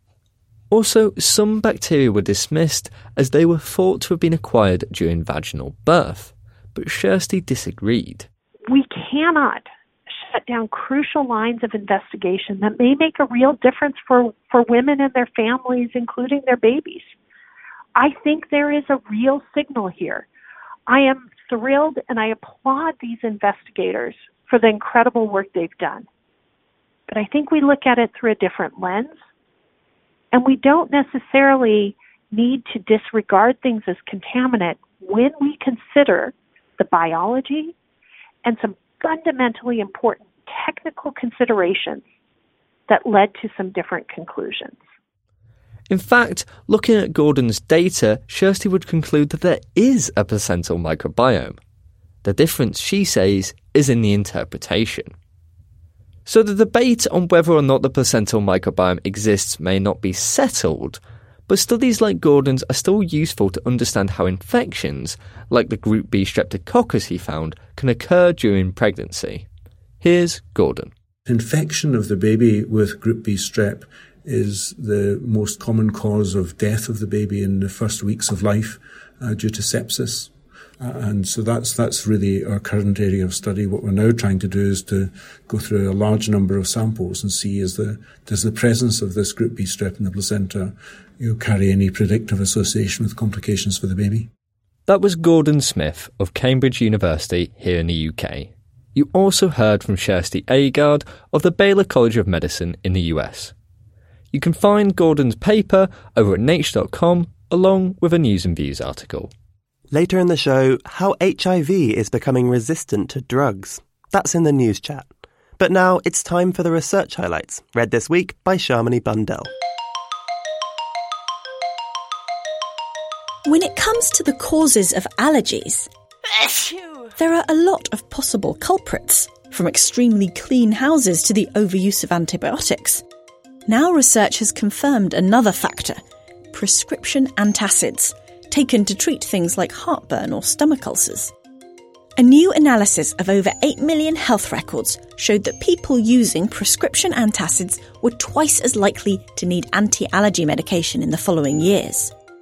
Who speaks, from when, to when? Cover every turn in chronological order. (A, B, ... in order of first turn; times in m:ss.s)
0:00.7-0:08.3 A
0:08.7-0:17.1 B
0:18.0-0:20.3 B
0:20.9-0:26.1 B
0:27.1-0:29.2 B
0:30.3-0:37.8 B
0:38.4-0:42.0 B
0:42.9-0:44.8 B
0:45.9-0:51.6 A
0:52.2-0:55.1 A
0:56.3-1:09.4 A
1:10.0-1:10.9 A
1:11.3-1:34.3 C
1:34.9-1:43.5 A
1:44.3-1:49.3 A
1:49.9-1:55.1 D
1:55.6-1:59.5 D
2:03.5-2:05.9 E
2:07.2-2:13.0 E
2:13.7-2:16.0 E
2:16.5-2:21.3 E
2:22.2-2:32.1 E